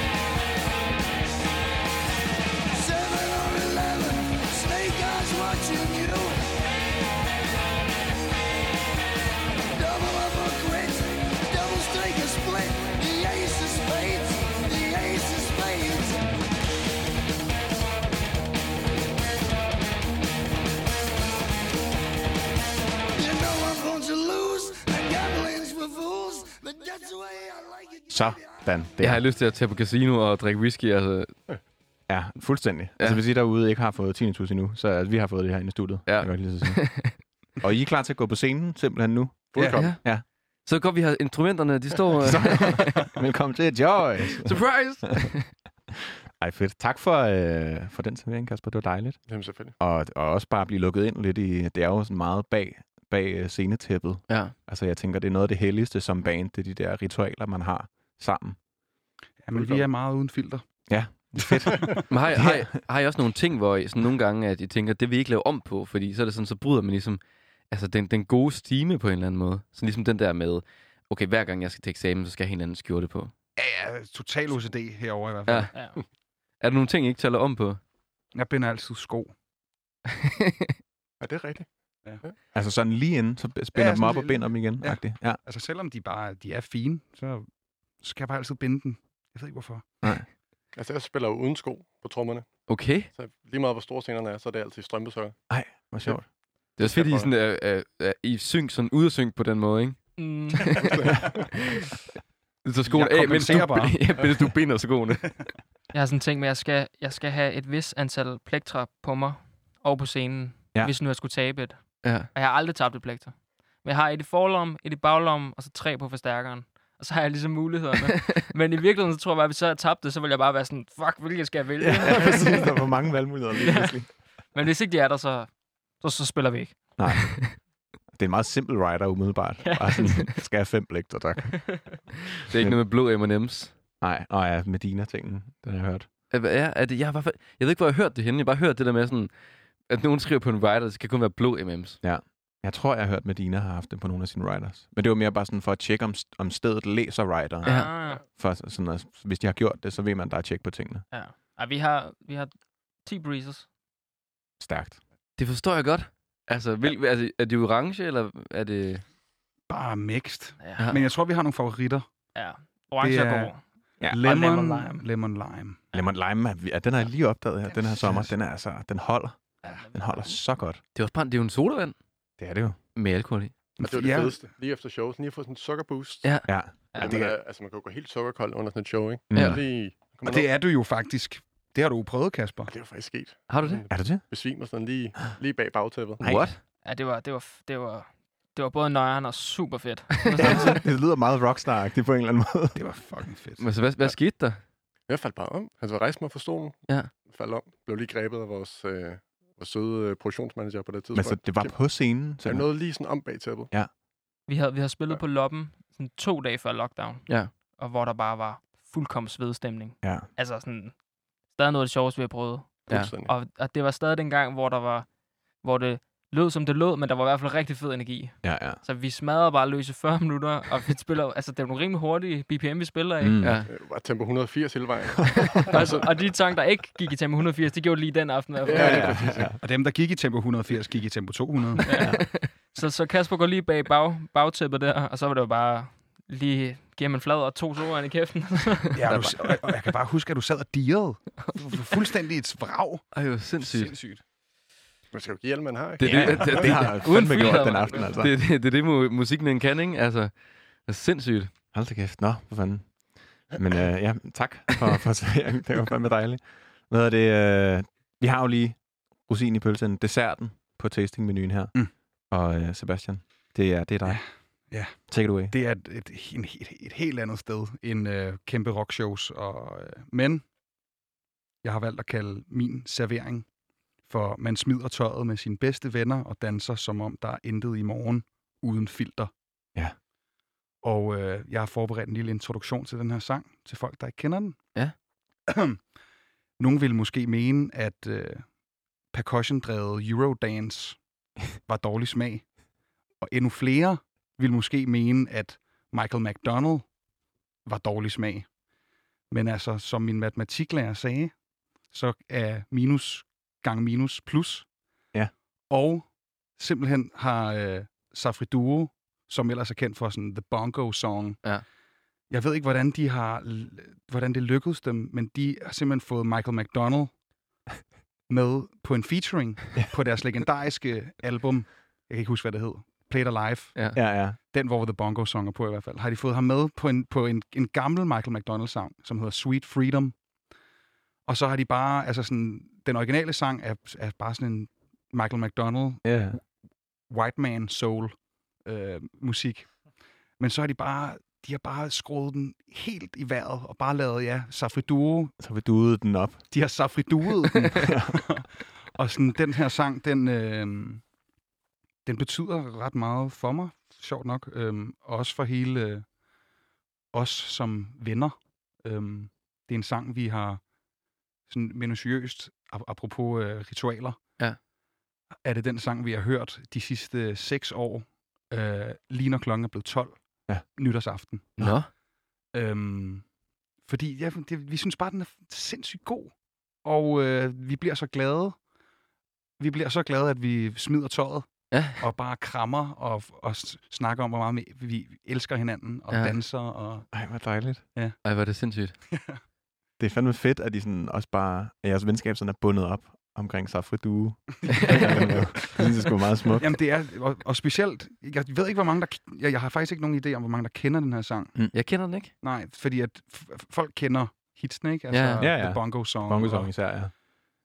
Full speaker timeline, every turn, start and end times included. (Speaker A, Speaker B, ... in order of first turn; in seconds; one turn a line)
Speaker A: 2.7-6.4
Speaker A: 9.7-16.2
Speaker A: 23.1-28.7
Speaker B: 28.1-29.2
Speaker C: 29.0-31.3
Speaker B: 32.1-40.2
Speaker C: 36.0-37.1
Speaker D: 39.5-40.0
Speaker E: 39.5-39.9
Speaker C: 39.7-40.0
Speaker C: 40.6-43.1
Speaker B: 42.2-45.3
Speaker C: 44.4-45.5
Speaker B: 46.4-49.2
Speaker D: 49.3-49.8
Speaker B: 49.8-58.6
Speaker C: 54.3-54.5
Speaker E: 59.4-60.6
Speaker D: 59.5-59.8
Speaker B: 60.9-62.7
Speaker E: 61.4-61.9
Speaker C: 62.1-73.3
Speaker E: 73.6-75.8
Speaker C: 75.5-75.9
Speaker C: 76.6-77.8
Speaker E: 78.3-79.3
Speaker C: 80.3-80.7
Speaker D: 81.2-81.7
Speaker B: 82.5-85.4
Speaker E: 83.7-87.5
Speaker E: 88.0-89.9
Speaker D: 90.8-95.3
Speaker C: 92.7-93.1
Speaker B: 95.5-96.3
Speaker D: 96.8-97.3
Speaker C: 96.8-101.8
Speaker F: 100.2-100.9
Speaker D: 100.8-101.2
Speaker C: 102.6-105.3
Speaker E: 102.8-104.3
Speaker F: 105.9-122.9
Speaker C: 112.0-112.3
Speaker B: 121.8-124.1
Speaker F: 123.5-124.0
Speaker F: 124.5-126.9
Speaker B: 127.0-127.6
Speaker B: 128.1-132.8
Speaker F: 129.6-130.4
Speaker F: 131.6-131.8
Speaker C: 132.5-133.7
Speaker B: 134.0-136.1
Speaker C: 136.3-139.3
Speaker C: 139.9-142.0
Speaker B: 142.0-151.0
Speaker C: 147.6-147.9
Speaker F: 147.6-148.2
Speaker F: 151.1-152.5
Speaker F: 153.0-153.7
Speaker B: 154.6-155.0
Speaker C: 155.4-159.0
Speaker E: 159.7-162.1
Speaker F: 160.6-160.9
Speaker F: 162.3-165.1
Speaker E: 163.0-163.5
Speaker E: 164.1-165.8
Speaker B: 165.9-170.8
Speaker E: 168.0-168.3
Speaker F: 169.6-170.4
Speaker C: 170.9-171.9
Speaker B: 172.4-172.8
Speaker C: 172.9-173.5
Speaker E: 173.8-174.4
Speaker D: 173.8-180.5
Speaker B: 176.4-177.3
Speaker B: 179.3-179.6
Speaker C: 179.3-179.6
Speaker E: 180.2-182.7
Speaker D: 182.7-186.2
Speaker C: 183.5-183.8
Speaker B: 183.9-184.3
Speaker C: 186.2-186.6
Speaker B: 186.2-186.5
Speaker F: 186.8-190.8
Speaker C: 190.3-190.7
Speaker B: 190.4-192.8
Speaker E: 192.7-193.7
Speaker C: 193.6-194.6
Speaker D: 195.1-201.9
Speaker B: 201.1-202.8
Speaker D: 202.4-203.7
Speaker F: 204.5-215.1
Speaker D: 212.9-213.3
Speaker F: 215.6-223.4
Speaker B: 218.4-218.8
Speaker B: 223.2-223.7
Speaker C: 223.4-223.7
Speaker D: 223.7-226.1
Speaker F: 225.5-229.4
Speaker D: 228.6-229.5
Speaker B: 228.7-229.6
Speaker E: 229.6-231.9
Speaker F: 231.8-239.0
Speaker B: 231.9-232.2
Speaker E: 238.9-244.2
Speaker C: 239.1-239.4
Speaker C: 243.1-243.9
Speaker D: 245.1-246.7
Speaker C: 246.0-251.5
Speaker B: 246.0-248.3
Speaker F: 247.1-248.1
Speaker B: 251.7-261.7
Speaker B: 262.3-264.2
Speaker E: 264.0-270.4
Speaker B: 265.1-265.5
Speaker E: 271.6-273.5
Speaker E: 274.1-279.3
Speaker E: 280.8-284.6
Speaker E: 285.5-285.8
Speaker E: 286.6-288.5
Speaker E: 289.1-291.0
Speaker E: 291.6-292.4
Speaker E: 293.2-296.9
Speaker E: 297.6-298.5
Speaker E: 299.3-301.3
Speaker E: 301.9-304.7
Speaker E: 305.7-311.4
Speaker E: 312.3-317.1
Speaker E: 318.3-330.1
Speaker B: 323.9-324.4
Speaker E: 331.3-336.4
Speaker B: 336.0-336.4
Speaker E: 337.1-339.7
Speaker E: 340.4-345.3
Speaker B: 345.4-346.4
Speaker E: 346.5-351.0
Speaker B: 347.8-348.2
Speaker E: 352.0-356.1
Speaker E: 357.1-360.6
Speaker E: 361.5-364.2
Speaker E: 365.4-371.6
Speaker C: 371.6-371.9
Speaker E: 372.5-373.2
Speaker E: 373.8-376.3
Speaker E: 376.8-378.6
Speaker E: 379.6-387.1
Speaker C: 381.7-382.0
Speaker C: 386.1-386.4
Speaker B: 387.1-387.8
Speaker C: 388.2-388.9
Speaker E: 389.1-389.4
Speaker B: 390.0-396.7
Speaker C: 394.7-395.2
Speaker E: 394.8-395.6
Speaker E: 396.6-401.6
Speaker C: 401.7-402.3
Speaker E: 402.4-406.7
Speaker C: 405.1-405.4
Speaker B: 405.4-407.1